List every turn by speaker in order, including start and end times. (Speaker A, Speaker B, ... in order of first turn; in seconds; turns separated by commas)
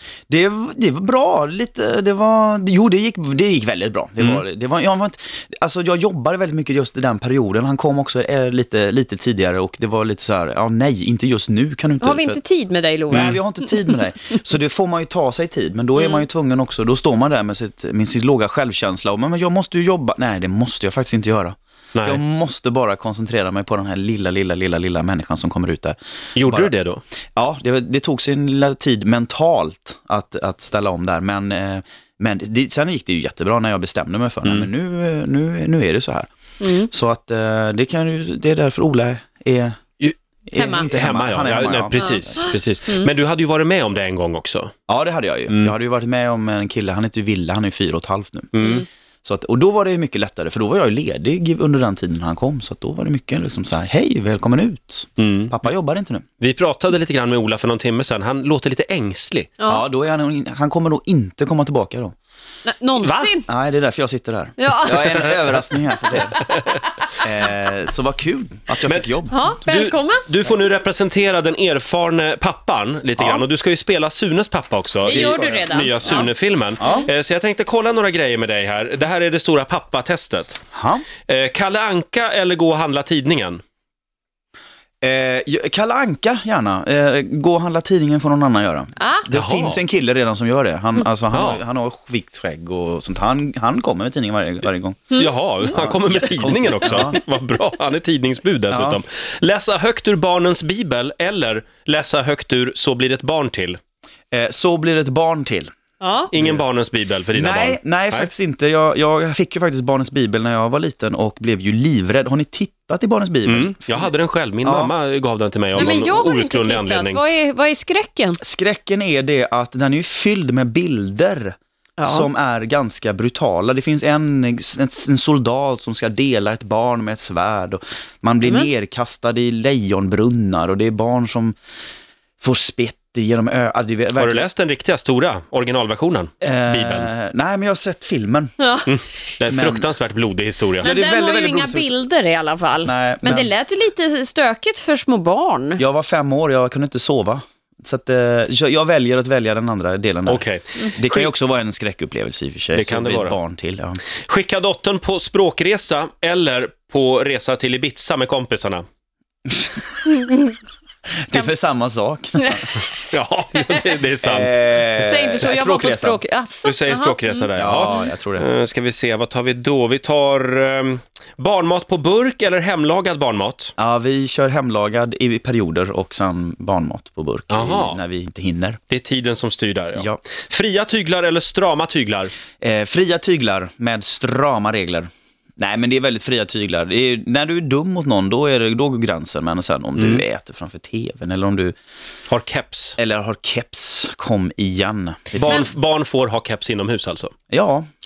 Speaker A: 0.3-12.4, Speaker B: 12.0-13.9, Speaker A: 13.1-26.7, Speaker B: 16.0-16.2, Speaker C: 21.9-22.2, Speaker C: 26.4-27.0, Speaker A: 27.3-36.3, Speaker C: 34.4-34.7, Speaker B: 36.6-36.9, Speaker A: 36.8-39.8, Speaker A: 40.5-42.5, Speaker B: 40.5-40.9, Speaker C: 40.8-44.7, Speaker B: 42.0-43.1, Speaker A: 44.9-56.2, Speaker C: 48.5-48.8, Speaker B: 48.6-48.8, Speaker C: 55.2-55.6, Speaker C: 56.4-59.5, Speaker B: 59.6-59.9, Speaker A: 59.7-62.1, Speaker B: 62.6-63.5, Speaker C: 63.0-63.3, Speaker A: 63.5-66.4, Speaker B: 64.6-65.2, Speaker A: 67.2-69.3, Speaker C: 68.8-69.1, Speaker B: 69.3-70.3, Speaker C: 69.6-80.6, Speaker A: 73.2-73.4, Speaker B: 75.0-76.3, Speaker A: 75.1-76.2, Speaker A: 76.8-77.1, Speaker A: 80.7-81.0, Speaker C: 81.3-83.6, Speaker A: 85.0-97.2, Speaker B: 89.0-89.3, Speaker C: 89.3-89.8, Speaker C: 91.3-91.6, Speaker C: 95.2-103.8, Speaker A: 98.7-99.0, Speaker A: 104.3-105.7, Speaker B: 106.0-106.3, Speaker C: 106.3-108.3, Speaker A: 106.3-106.6, Speaker A: 107.3-114.1, Speaker C: 113.4-117.2, Speaker A: 114.6-114.9, Speaker A: 115.8-116.0, Speaker B: 115.8-118.4, Speaker A: 118.4-131.5, Speaker B: 122.0-122.3, Speaker B: 128.4-128.7, Speaker A: 132.4-134.5, Speaker C: 134.2-137.1, Speaker A: 136.4-138.5, Speaker B: 138.6-138.9, Speaker C: 138.9-140.9, Speaker A: 139.5-139.9, Speaker A: 140.8-141.9, Speaker B: 140.8-145.8, Speaker A: 142.8-143.5, Speaker A: 145.8-150.4, Speaker C: 150.2-151.3, Speaker A: 150.9-154.0, Speaker C: 152.7-153.3, Speaker C: 154.3-158.8, Speaker A: 159.5-160.2, Speaker A: 161.2-162.8, Speaker C: 163.1-164.6, Speaker A: 164.2-166.2, Speaker B: 165.0-168.0, Speaker C: 166.6-173.7, Speaker A: 167.6-168.5, Speaker A: 173.8-178.8, Speaker C: 177.5-178.0, Speaker C: 178.9-182.3, Speaker A: 182.6-191.7, Speaker C: 190.0-190.2, Speaker C: 192.3-192.9, Speaker A: 193.0-195.7, Speaker C: 195.3-197.3, Speaker A: 197.5-197.8